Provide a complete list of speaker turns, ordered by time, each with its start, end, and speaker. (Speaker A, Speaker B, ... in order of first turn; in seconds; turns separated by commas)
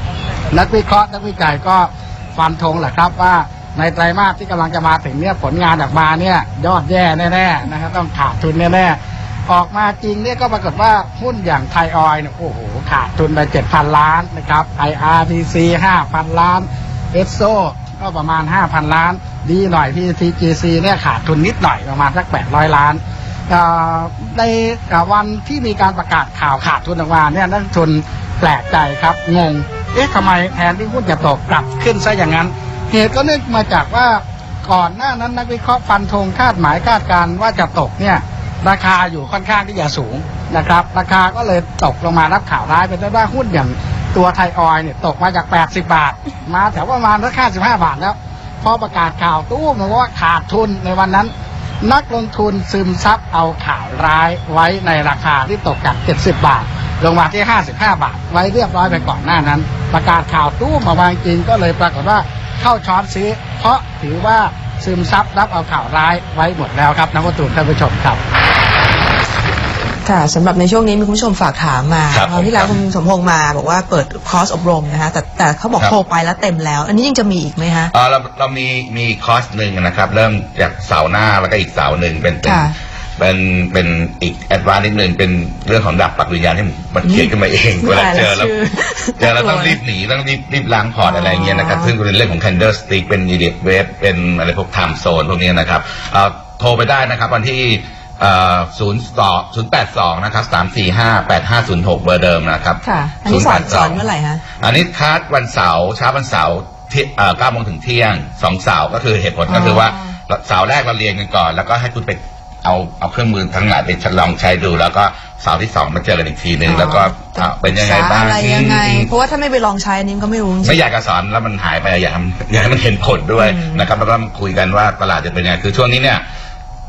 Speaker A: 0.5-51.3, Speaker A: 51.8-68.2, Speaker B: 70.0-77.9, Speaker C: 72.1-72.7, Speaker C: 77.9-88.5, Speaker B: 82.4-82.7, Speaker B: 87.0-87.3, Speaker B: 87.8-89.8, Speaker C: 89.2-104.0, Speaker B: 91.0-91.9, Speaker B: 102.8-104.4, Speaker C: 104.6-119.1, Speaker B: 109.5-110.1, Speaker B: 116.6-120.8, Speaker C: 120.6-126.2, Speaker B: 123.4-123.9